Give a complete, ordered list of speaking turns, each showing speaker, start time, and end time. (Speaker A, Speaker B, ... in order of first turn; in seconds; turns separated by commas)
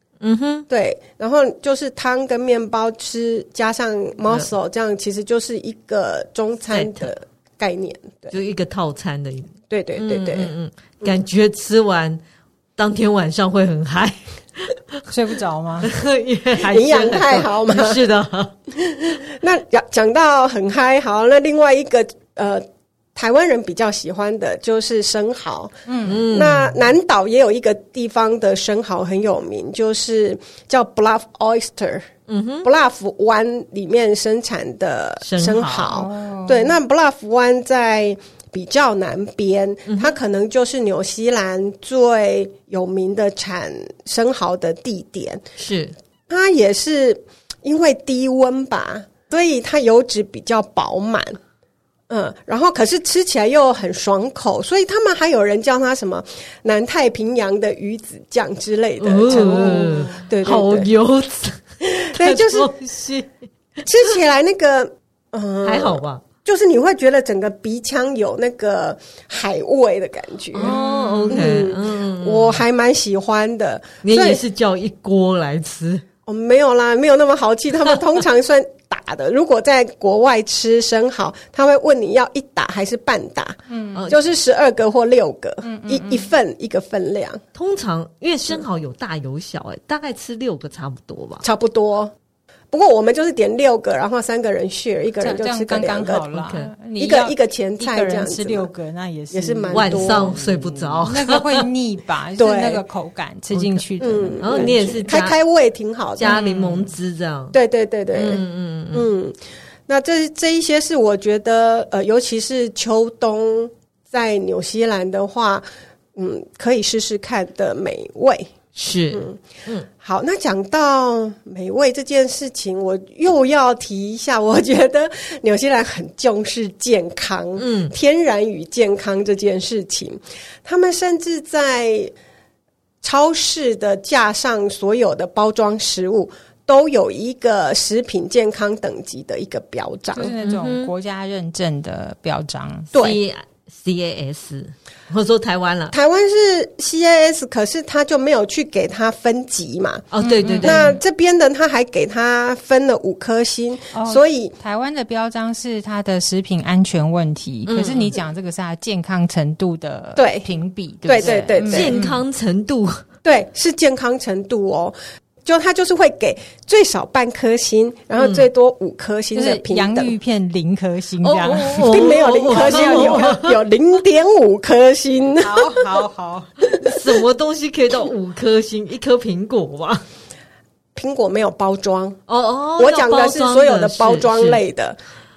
Speaker A: 0.2-0.7, Speaker B: 0.7-8.3, Speaker A: 6.7-7.1, Speaker A: 8.3-12.2, Speaker B: 9.7-10.5, Speaker A: 12.8-15.0, Speaker C: 15.1-15.9, Speaker A: 15.8-18.5, Speaker B: 16.6-18.0, Speaker B: 18.8-32.1, Speaker C: 25.9-26.2, Speaker A: 26.0-26.8, Speaker A: 32.3-32.7, Speaker B: 32.6-45.4, Speaker A: 35.2-35.9, Speaker C: 35.9-36.8, Speaker A: 39.9-40.1, Speaker A: 45.6-46.0, Speaker B: 46.3-51.4, Speaker B: 52.1-60.9, Speaker A: 59.0-61.6, Speaker C: 59.3-60.3, Speaker B: 61.8-62.7, Speaker A: 62.1-63.3, Speaker B: 63.8-74.4, Speaker A: 65.6-66.2, Speaker A: 70.5-72.6, Speaker C: 70.7-71.3, Speaker A: 74.0-76.0, Speaker B: 76.2-83.6, Speaker C: 83.7-84.1, Speaker B: 84.1-87.4, Speaker C: 85.6-86.3, Speaker A: 87.5-91.4, Speaker B: 91.4-92.1, Speaker B: 92.7-96.2, Speaker C: 95.2-105.1, Speaker A: 96.3-96.7, Speaker B: 97.0-98.7, Speaker B: 99.3-100.4, Speaker A: 99.7-101.7, Speaker B: 102.4-102.8, Speaker A: 103.5-103.9, Speaker B: 104.0-106.3, Speaker A: 104.4-105.4, Speaker A: 106.2-107.5, Speaker C: 106.2-106.9, Speaker B: 107.5-108.4, Speaker A: 108.1-109.1, Speaker B: 108.9-109.3, Speaker B: 109.9-118.5, Speaker A: 118.7-119.9, Speaker B: 119.1-119.4, Speaker B: 120.0-132.1, Speaker A: 127.6-127.9, Speaker B: 133.0-140.3, Speaker C: 140.1-142.9, Speaker A: 140.4-140.9, Speaker B: 142.9-143.2, Speaker A: 142.9-145.9, Speaker B: 145.9-150.1, Speaker A: 150.1-150.9, Speaker C: 150.2-151.0, Speaker B: 150.6-154.5, Speaker C: 153.9-162.2, Speaker A: 157.7-158.1, Speaker B: 160.2-160.5, Speaker B: 161.1-162.0, Speaker A: 161.2-163.0, Speaker B: 163.2-170.1, Speaker A: 168.2-168.5, Speaker C: 169.3-173.5, Speaker A: 171.2-173.6, Speaker B: 171.8-175.9, Speaker C: 175.4-176.5, Speaker A: 176.8-180.0, Speaker B: 180.9-182.2, Speaker A: 182.3-184.6, Speaker B: 182.8-185.0